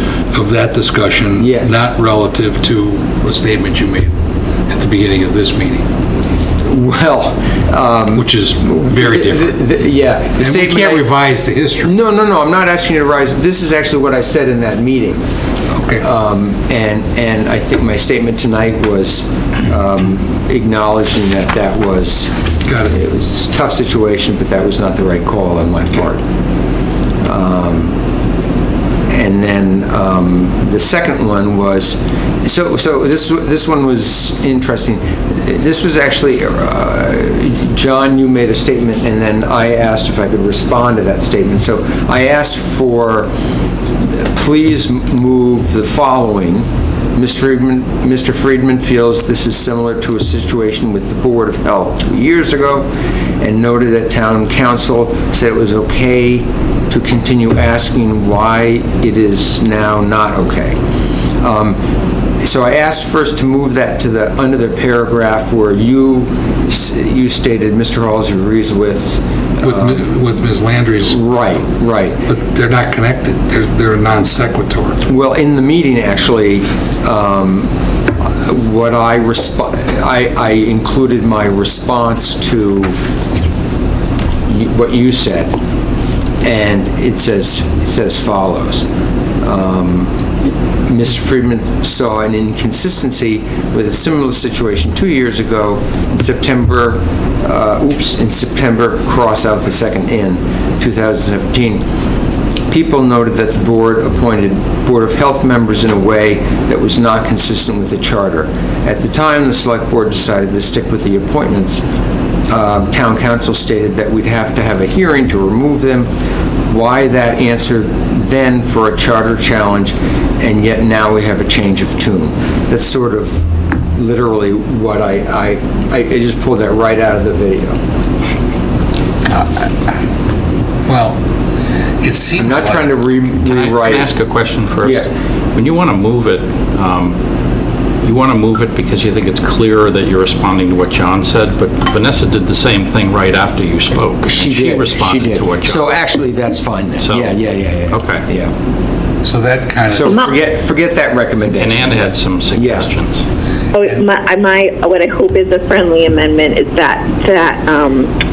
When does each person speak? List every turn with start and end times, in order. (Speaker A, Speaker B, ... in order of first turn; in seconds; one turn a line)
Speaker A: 0.3-4.1
Speaker B: 1.4-1.8
Speaker A: 4.7-5.8
Speaker B: 6.6-11.1
Speaker A: 8.1-9.6
Speaker A: 10.4-11.9
Speaker B: 11.8-15.2
Speaker A: 15.7-16.0
Speaker B: 16.0-26.2
Speaker A: 22.6-22.9
Speaker B: 27.2-27.9
Speaker B: 29.1-43.3
Speaker B: 44.1-52.9
Speaker B: 53.4-60.8
Speaker B: 61.4-61.8
Speaker B: 62.4-70.0
Speaker A: 69.6-71.3
Speaker B: 71.1-72.2
Speaker A: 72.2-75.0
Speaker B: 75.0-82.9
Speaker B: 84.5-85.5
Speaker B: 86.4-88.8
Speaker B: 89.4-90.1
Speaker B: 90.8-101.8
Speaker B: 102.7-111.8
Speaker B: 112.5-116.1
Speaker B: 116.7-127.8
Speaker A: 130.9-131.2
Speaker A: 132.0-133.0
Speaker B: 132.4-134.1
Speaker C: 133.4-137.2
Speaker B: 134.8-135.1
Speaker C: 138.0-145.8
Speaker B: 144.2-148.5
Speaker C: 147.0-147.4
Speaker C: 147.9-148.2
Speaker A: 149.2-150.3
Speaker B: 149.9-152.9
Speaker C: 151.5-153.2
Speaker D: 153.7-158.1